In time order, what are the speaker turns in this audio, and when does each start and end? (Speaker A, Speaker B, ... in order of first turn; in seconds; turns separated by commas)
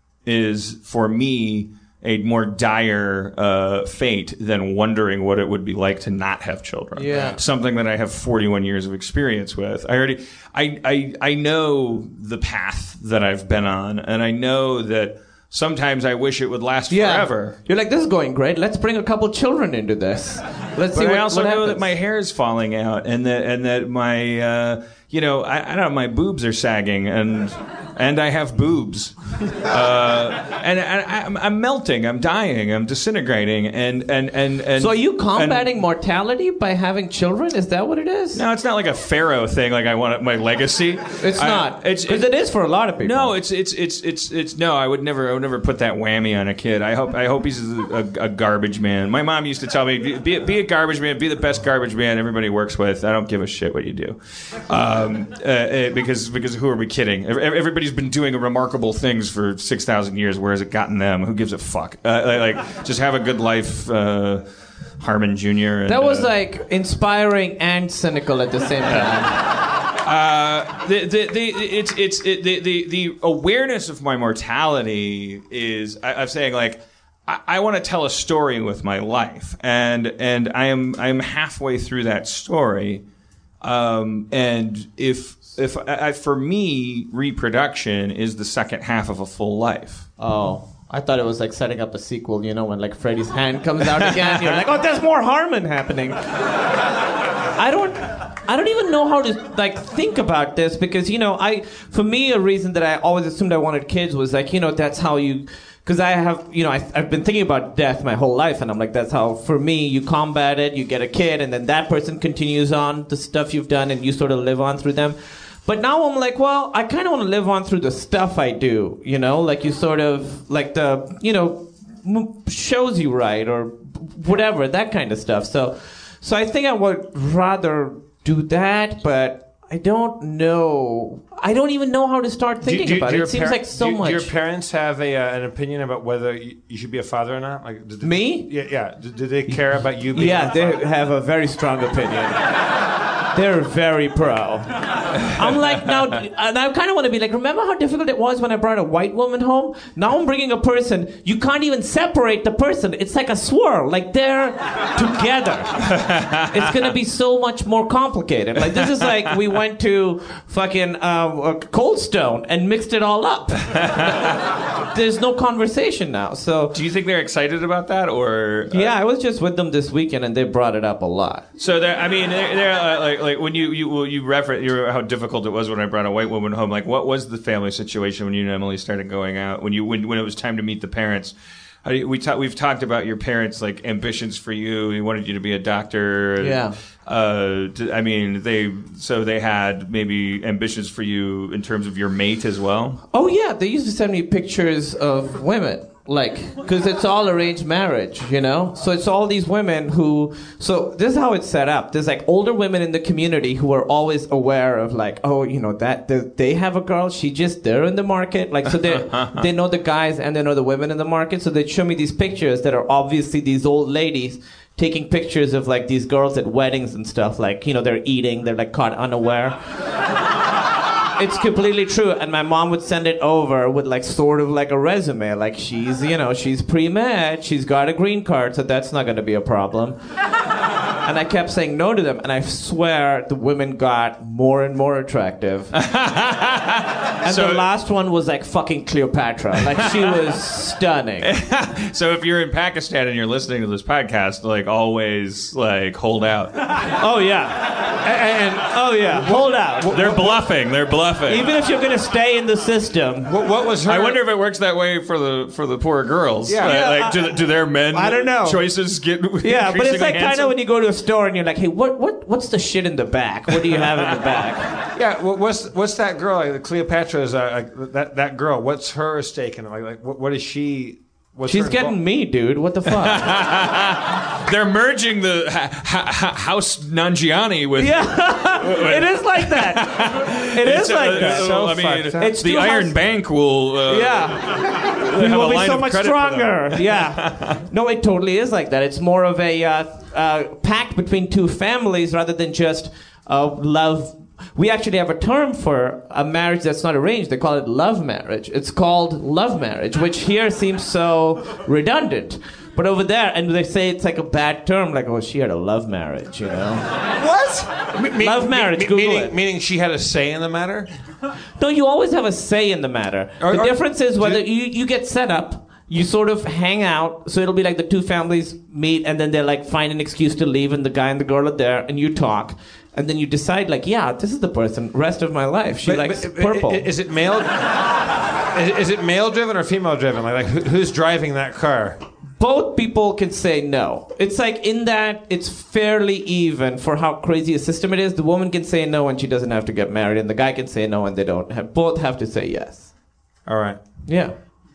Speaker A: 0.2-17.6, Speaker B: 7.0-7.4, Speaker B: 16.9-21.9, Speaker A: 20.9-35.6, Speaker B: 34.8-38.4, Speaker A: 38.3-42.3, Speaker B: 41.2-43.4, Speaker A: 43.0-64.4, Speaker A: 65.0-66.3, Speaker B: 65.9-69.4, Speaker A: 70.0-83.0, Speaker A: 83.6-90.1, Speaker B: 90.2-96.6, Speaker A: 94.0-94.6, Speaker B: 97.5-134.3, Speaker C: 132.6-140.8, Speaker B: 138.0-138.5, Speaker B: 140.1-142.7, Speaker B: 143.3-166.8, Speaker A: 155.9-156.5, Speaker A: 163.7-164.4, Speaker A: 166.7-168.9, Speaker B: 168.7-171.4, Speaker A: 171.6-181.3, Speaker A: 181.8-193.0, Speaker B: 186.4-186.8, Speaker B: 193.1-219.6, Speaker A: 208.8-209.4, Speaker B: 221.2-230.0, Speaker B: 231.0-235.7, Speaker A: 235.7-237.6, Speaker B: 237.2-241.3, Speaker A: 241.2-246.6, Speaker B: 246.8-248.1, Speaker C: 248.0-250.5, Speaker B: 248.6-250.0, Speaker A: 249.9-251.5, Speaker B: 251.2-253.3, Speaker C: 253.2-254.2, Speaker A: 253.9-260.5, Speaker C: 256.5-256.8, Speaker B: 256.6-258.7, Speaker B: 259.4-264.8, Speaker A: 263.7-264.1, Speaker C: 264.9-272.0, Speaker B: 271.5-273.4, Speaker A: 272.9-287.6, Speaker B: 277.8-283.0, Speaker C: 281.1-282.3, Speaker B: 283.8-306.9, Speaker C: 307.1-310.9, Speaker B: 308.2-309.4, Speaker B: 311.6-326.9, Speaker C: 313.4-314.4, Speaker C: 325.8-332.0, Speaker B: 332.4-342.9, Speaker C: 343.5-343.8, Speaker B: 344.1-344.3